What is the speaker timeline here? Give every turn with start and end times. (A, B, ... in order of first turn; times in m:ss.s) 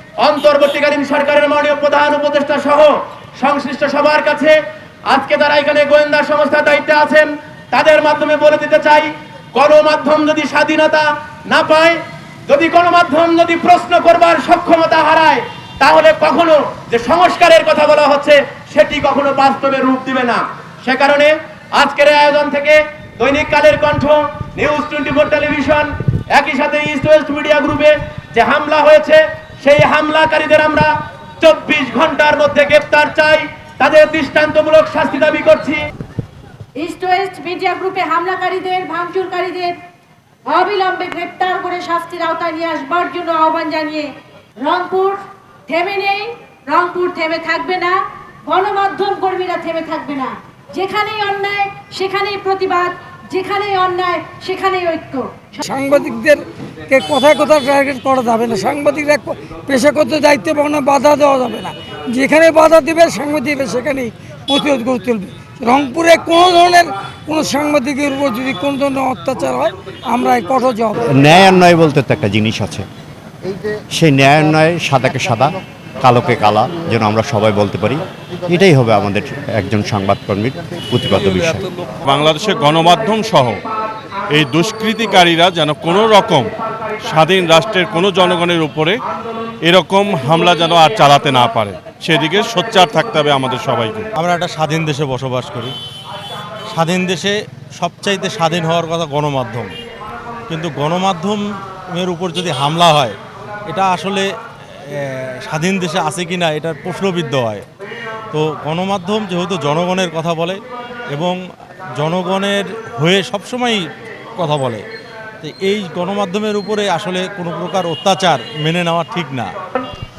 0:00.2-0:35.8 A
0:36.8-0:39.7 B
0:40.5-0:55.6 B
0:55.8-0:56.4 C
0:56.9-1:11.0 C
1:11.0-1:12.9 D
1:13.9-1:21.7 D
1:22.0-1:23.6 E
1:24.3-1:29.0 E
1:29.6-1:34.1 E
1:34.2-1:35.7 F
1:36.7-1:39.7 F
1:40.5-1:43.2 F
1:43.7-1:44.3 F
1:44.9-1:47.6 F
1:48.3-1:50.6 F
1:51.1-1:51.4 F
1:52.0-1:53.8 F
1:54.4-1:54.8 F
1:55.4-1:59.5 F